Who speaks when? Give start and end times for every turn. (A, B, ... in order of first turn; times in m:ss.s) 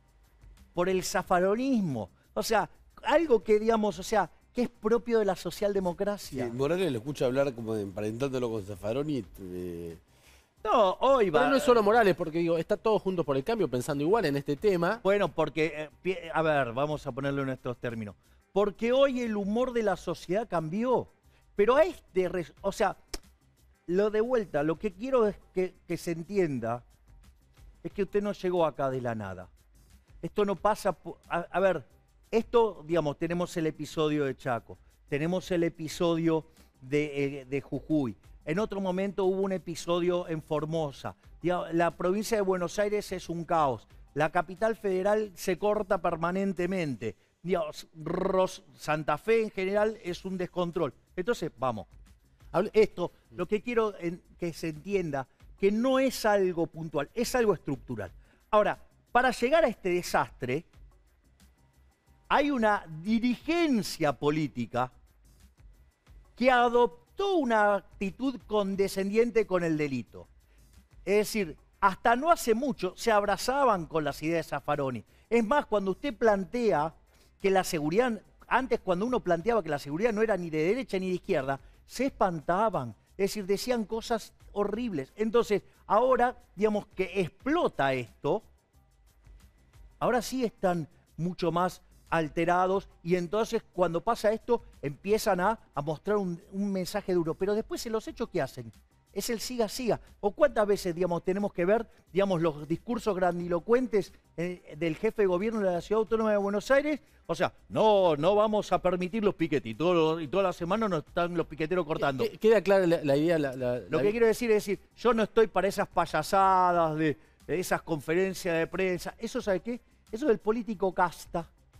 0:00.8-0:06.5 A
0:06.3-0:10.0 B
0:10.6-0:11.8 A
0:11.3-0:15.0 C
0:15.0-0:23.0 A
0:23.9-0:26.8 A
0:27.8-0:29.5 A
0:30.2-0:51.9 A
0:52.7-1:00.7 A
1:02.3-1:04.9 A
1:06.4-1:10.3 A
1:11.0-1:28.4 A
1:30.0-1:52.3 A
1:52.0-1:54.2 C
1:53.9-2:01.5 A